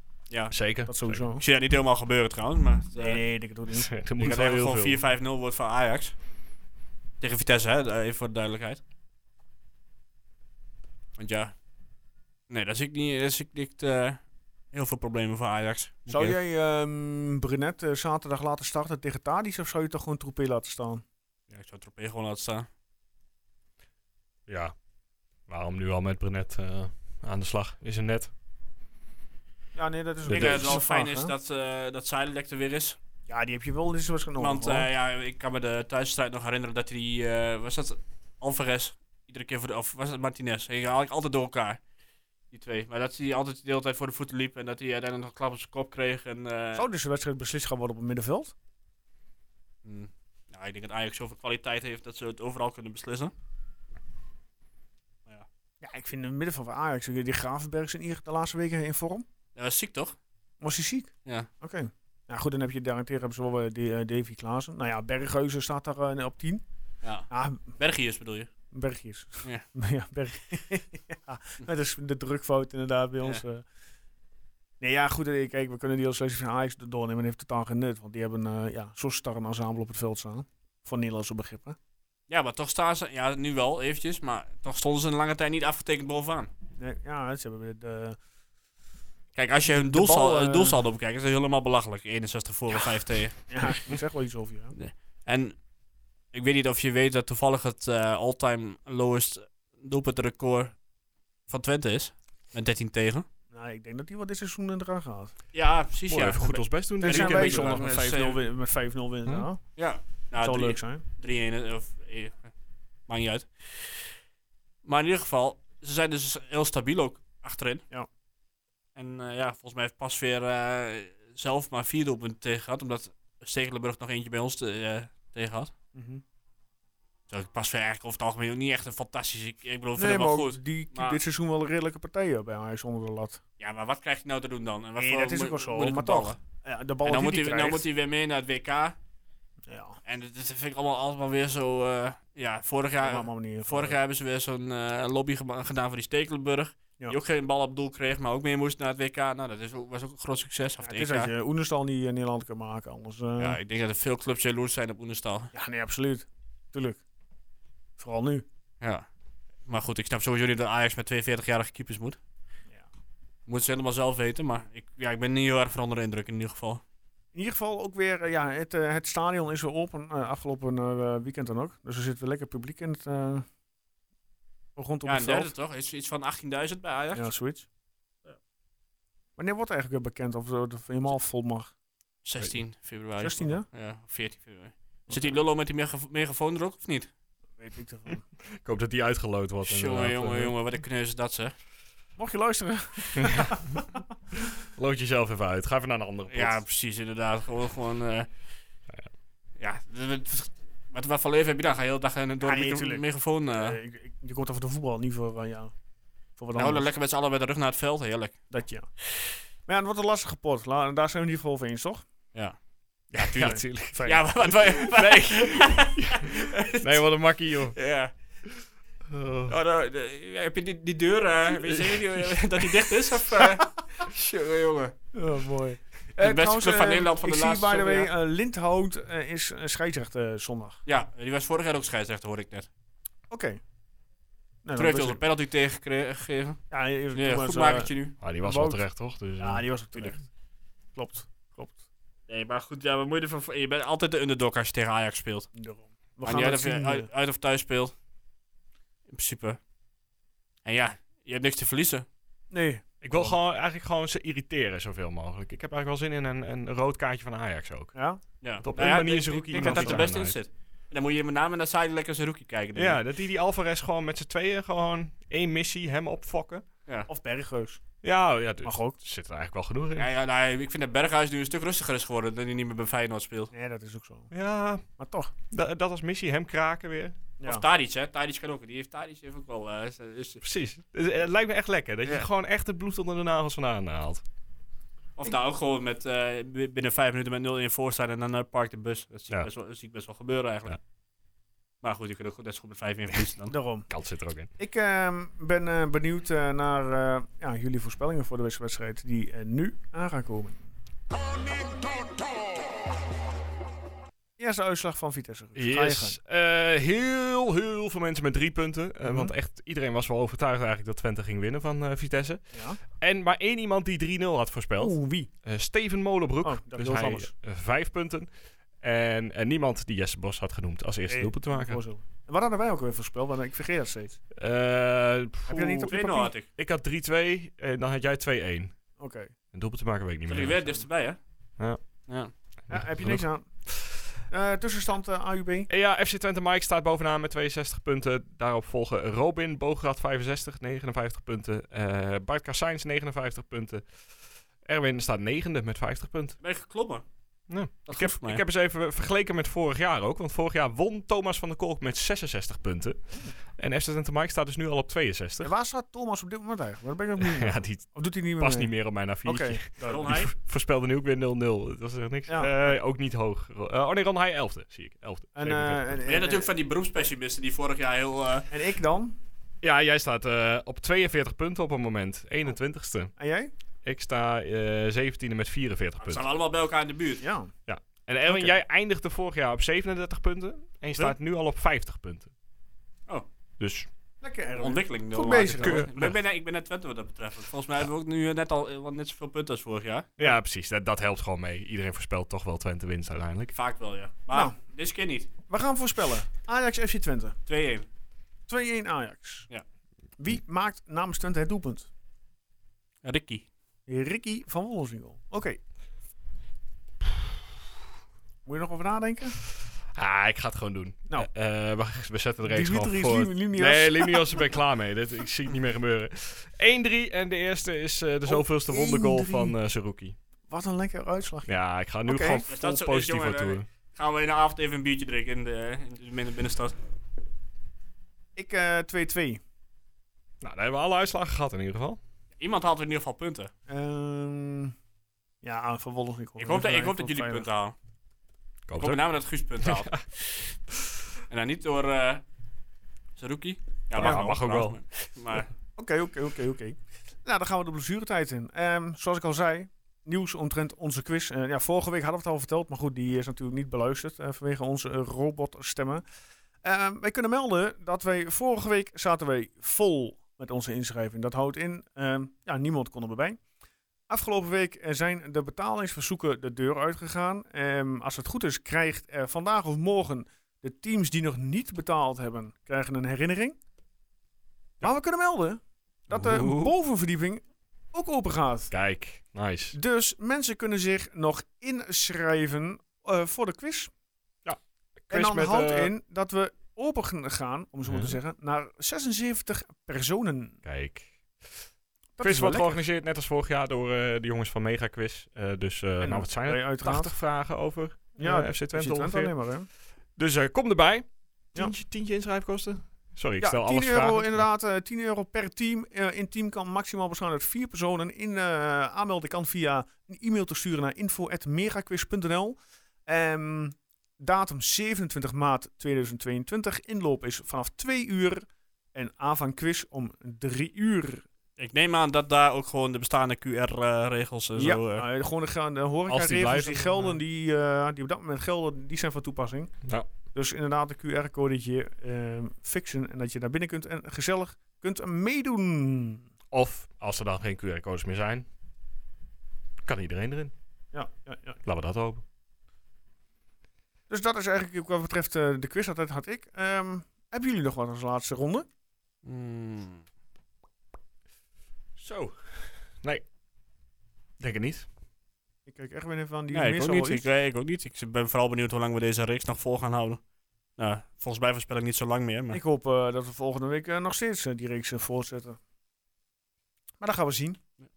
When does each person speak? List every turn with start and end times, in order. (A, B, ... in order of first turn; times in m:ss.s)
0:00.3-0:00.6 A
0:00.5-0:01.2 B
0:00.9-0:01.4 C
0:01.4-0:03.2 A
0:03.0-0:03.9 C
0:03.7-0:05.0 B
0:04.2-0:06.2 A
0:07.2-0:08.8 A
0:11.2-0:11.5 A
0:12.5-0:14.2 A
0:14.7-0:16.3 A
0:16.1-0:21.0 C
0:21.5-0:22.7 A
0:24.5-0:24.7 B
0:25.5-0:28.3 B
0:29.8-0:31.3 C
0:30.2-0:30.8 B
0:30.3-0:33.0 A
0:33.3-0:34.9 C
0:34.4-0:41.8 A
0:42.5-0:46.9 A
0:46.8-0:48.5 C
0:49.8-0:53.3 A
0:55.8-0:59.3 C
0:59.6-1:00.2 A
1:00.6-1:06.6 C
1:07.0-1:08.5 A
1:07.3-1:07.8 C
1:08.7-1:13.6 C
1:14.8-1:21.8 C
1:22.3-1:26.5 A
1:26.8-1:28.2 C
1:29.4-1:33.9 A
1:29.9-1:30.8 C
1:33.5-1:34.8 C
1:34.8-1:35.6 A
1:36.3-1:40.7 A
1:41.5-1:43.3 A
1:43.5-1:45.3 C
1:45.5-1:48.4 A
1:46.1-1:47.8 B
1:47.0-1:49.6 C
1:49.8-1:52.5 A
1:50.4-1:51.0 C
1:53.1-1:54.1 A
1:54.8-1:57.8 A
1:59.0-2:05.7 A
2:06.0-2:06.2 C
2:07.3-2:11.2 A
2:10.0-2:13.4 C
2:13.6-2:16.4 A
2:15.0-2:17.8 C
2:17.0-2:19.0 A
2:19.7-2:20.0 C
2:20.1-2:31.3 A
2:23.0-2:24.0 C
2:30.8-2:33.6 C
2:33.4-2:35.5 A
2:35.5-2:37.0 C
2:38.0-2:38.4 C
2:38.8-2:39.1 A
2:39.7-2:42.2 A
2:43.5-2:46.8 A
2:47.4-2:53.4 C
2:54.8-2:55.5 C
2:55.0-2:57.3 A
2:57.1-2:57.7 C
2:59.4-3:01.7 C
3:02.2-3:07.1 A
3:03.2-3:03.7 C
3:07.6-3:08.2 C
3:08.6-3:10.6 B
3:09.6-3:11.6 A
3:12.2-3:14.0 C
3:13.2-3:13.7 B
3:14.8-3:16.6 B
3:16.3-3:18.3 A
3:19.6-3:23.8 A
3:22.4-3:25.7 C
3:26.4-3:26.9 C
3:26.6-3:28.4 A
3:28.5-3:28.9 C
3:29.7-3:32.0 C
3:33.1-3:37.8 B
3:33.2-3:36.9 A
3:33.4-3:34.2 C
3:37.7-3:38.1 A
3:39.1-3:39.6 B
3:39.5-3:45.0 A
3:41.9-3:42.2 B
3:45.1-3:50.8 C
3:46.2-3:48.1 A
3:50.9-3:52.7 A
3:53.3-3:53.6 C
3:54.6-3:55.2 C
3:54.8-3:56.6 A
3:56.7-3:58.8 C
3:57.1-3:58.2 A
3:58.2-3:59.6 B
3:59.4-4:00.2 C
4:01.0-4:01.8 C
4:02.3-4:05.5 A
4:05.6-4:07.1 C
4:06.2-4:07.9 A
4:09.1-4:09.6 A
4:10.6-4:12.1 A
4:12.5-4:13.4 C
4:13.0-4:18.0 B
4:17.9-4:18.2 C
4:18.4-4:23.0 A
4:18.6-4:20.4 B
4:19.6-4:20.1 C
4:22.8-4:26.6 B
4:27.1-4:27.8 C
4:28.0-4:30.1 B
4:28.6-4:29.0 C
4:30.0-4:33.5 A
4:33.5-4:34.3 C
4:34.3-4:34.8 B
4:35.0-4:35.3 C
4:35.5-4:37.2 B
4:37.4-4:37.6 C
4:37.4-4:40.4 A
4:40.4-4:44.2 B
4:45.2-4:50.8 A
4:51.8-4:53.5 A
4:53.5-4:53.9 C
4:53.9-4:54.5 B
4:54.6-5:00.7 C
5:01.5-5:02.2 B
5:04.4-5:06.2 C
5:05.6-5:18.3 B
5:09.0-5:09.3 C
5:12.5-5:12.8 C
5:14.8-5:15.3 C
5:16.4-5:17.3 C
5:18.8-5:21.8 B
5:21.1-5:24.2 C
5:24.3-5:25.9 B
5:25.5-5:26.3 C
5:25.9-5:26.5 A
5:26.6-5:28.8 B
5:29.0-5:29.3 C
5:29.5-5:30.8 B
5:30.3-5:31.2 A
5:32.7-5:34.0 B
5:32.7-5:33.5 C
5:34.3-5:35.7 C
5:35.7-5:43.9 B
5:44.6-5:46.4 B
5:46.4-5:47.0 A
5:47.5-5:55.5 B
5:47.9-5:48.4 A
5:55.4-6:00.1 C
5:57.2-6:06.0 B
5:59.8-6:00.3 A
6:02.3-6:02.8 C
6:05.4-6:06.5 C
6:06.0-6:08.5 A
6:08.5-6:09.2 C
6:09.6-6:13.1 B
6:13.2-6:13.5 C
6:13.8-6:16.2 B
6:16.0-6:17.2 A
6:17.2-6:17.5 C
6:17.7-6:22.3 B
6:18.3-6:18.6 C
6:23.6-6:23.9 B
6:24.2-6:25.8 C
6:24.6-6:30.1 A
6:25.6-6:26.2 B
6:30.2-6:33.6 B
6:33.5-6:35.3 A
6:35.5-6:37.4 C
6:37.5-6:37.9 A
6:38.5-6:39.5 C
6:40.2-6:41.9 C
6:43.0-6:43.5 A
6:43.9-6:45.6 C
6:48.5-6:49.4 C
6:49.9-7:00.2 B
6:52.4-6:54.5 C
6:58.3-6:59.6 C
7:00.5-7:01.5 C
7:01.5-7:03.7 B
7:02.0-7:02.4 C
7:02.5-7:06.8 A
7:08.4-7:09.4 C
7:10.4-7:12.0 B
7:12.4-7:13.5 A
7:13.7-7:14.7 C
7:15.4-7:17.5 C
7:16.4-7:17.8 A
7:18.7-7:19.0 B
7:18.8-7:20.5 A
7:19.6-7:20.0 B
7:21.3-7:22.2 A
7:23.2-7:25.5 A
7:23.9-7:24.8 B
7:24.0-7:24.3 C
7:25.8-7:36.0 C
7:36.6-7:43.4 C
7:44.1-7:53.6 C
7:54.8-7:58.7 C
7:56.1-7:56.7 B
7:58.7-7:59.8 B
7:59.7-8:03.9 C
8:04.4-8:05.9 B
8:05.1-8:10.6 C
8:07.9-8:08.2 B
8:10.6-8:11.6 B
8:12.2-8:12.8 C
8:12.2-8:19.4 B
8:16.0-8:17.2 C
8:18.2-8:19.7 C
8:20.2-8:24.4 B
8:23.4-8:41.2 C
8:41.6-8:45.1 A
8:44.6-8:49.7 C
8:46.1-8:47.2 B
8:50.3-8:56.3 C
8:56.5-8:58.5 B
8:59.8-9:00.5 B
9:00.9-9:01.6 C
9:01.6-9:02.2 B
9:04.1-9:08.7 C
9:09.2-9:10.0 A
9:12.0-9:13.2 B
9:14.4-9:14.9 B
9:15.7-9:17.2 C
9:16.5-9:20.2 A
9:20.8-9:22.6 A
9:22.5-9:25.6 C
9:27.0-9:27.6 C